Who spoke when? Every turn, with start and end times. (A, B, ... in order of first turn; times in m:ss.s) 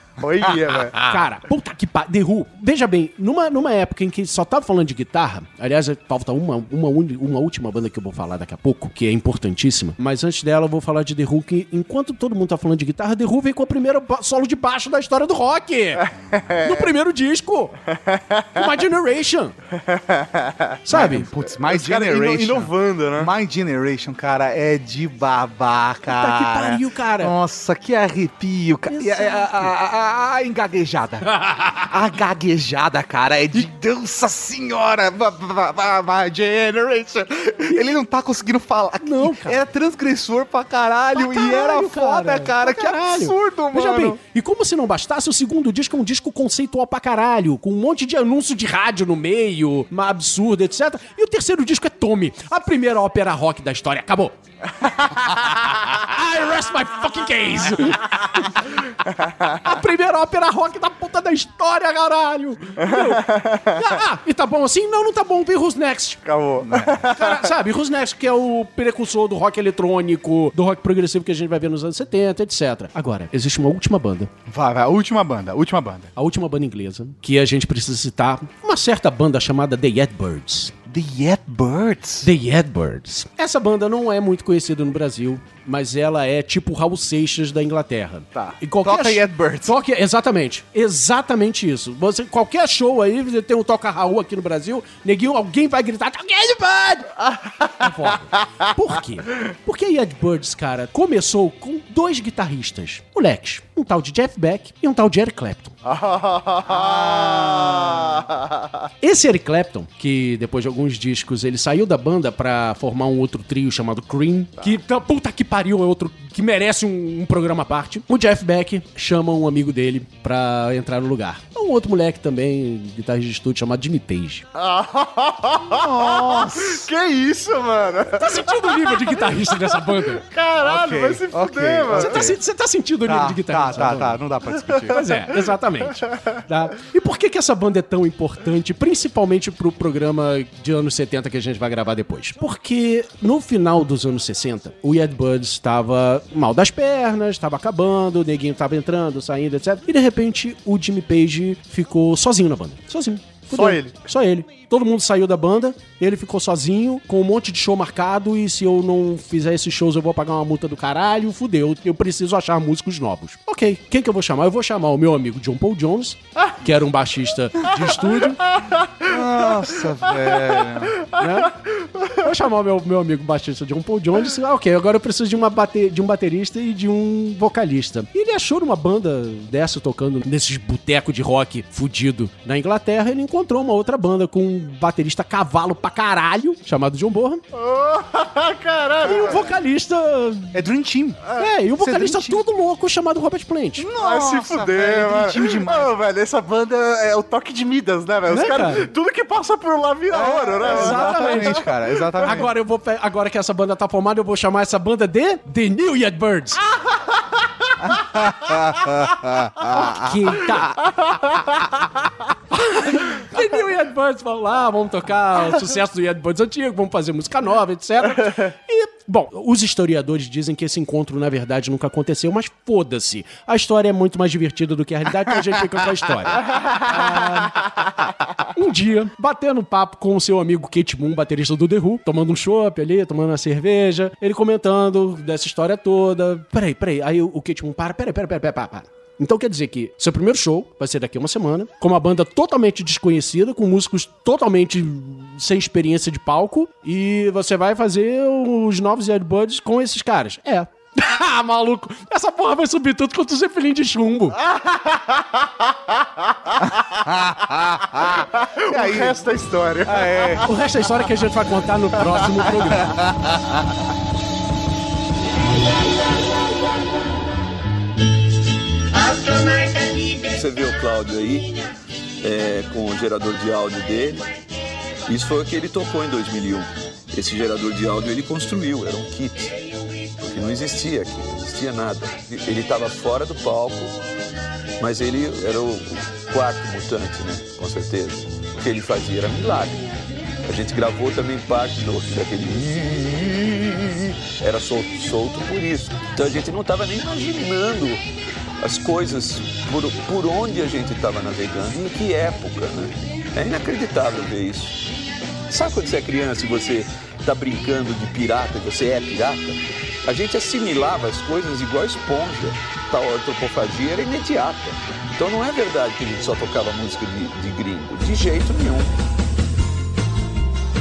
0:00.2-0:01.0 A
0:01.0-0:16.1 B
0:16.0-0:16.9 A
0:16.6-0:17.8 B
0:17.9-0:18.7 A
0:18.5-0:19.6 B
0:19.7-0:20.8 A
0:20.8-0:21.3 B
0:20.9-0:44.2 C
0:21.7-0:23.3 A
0:26.1-0:27.3 B
0:28.9-0:29.7 B
0:39.0-0:39.6 B
0:41.2-0:54.4 B
0:55.0-1:06.2 B
1:02.8-1:03.8 A
1:06.2-1:07.4 A
1:06.6-1:07.1 C
1:07.1-1:14.3 B
1:14.5-1:16.1 C
1:16.2-1:20.7 B
1:20.9-1:22.3 C
1:22.2-1:37.2 B
1:28.8-1:29.7 C
1:37.2-1:37.9 A
1:37.8-1:45.7 B
1:45.8-1:48.9 A
1:46.7-1:48.2 C
1:49.0-2:04.5 B
2:04.5-2:08.9 A
2:05.8-2:06.9 C
2:08.2-2:10.2 B
2:10.1-2:12.3 A
2:10.6-2:12.4 C
2:11.9-2:14.2 B
2:13.1-2:15.1 C
2:14.8-2:48.5 B
2:33.5-2:34.0 A
2:48.6-2:49.1 A
2:49.0-2:51.1 C
2:51.1-2:51.6 B
2:51.8-2:52.1 A
2:52.1-3:07.4 B
3:07.5-3:09.5 A
3:09.0-3:10.6 B
3:10.5-3:12.4 C
3:11.4-3:13.8 B
3:13.8-3:15.9 C
3:14.0-3:22.0 A
3:18.3-3:18.9 B
3:20.1-3:22.5 C
3:20.7-3:21.7 B
3:22.2-3:26.6 B
3:27.9-3:30.4 C
3:29.7-3:30.8 B
3:31.0-3:31.3 A
3:32.5-4:14.4 B
4:14.4-4:15.5 A
4:16.6-4:19.3 C
4:18.4-4:20.4 A
4:19.8-4:20.5 C
4:20.4-4:23.0 B
4:22.8-4:23.6 C
4:30.3-4:31.6 D
4:32.2-4:34.3 D
4:35.1-4:39.6 D
4:40.2-4:44.0 D
4:44.8-4:49.8 D
4:50.4-4:58.0 D
4:58.6-5:04.8 D
5:05.5-5:18.9 D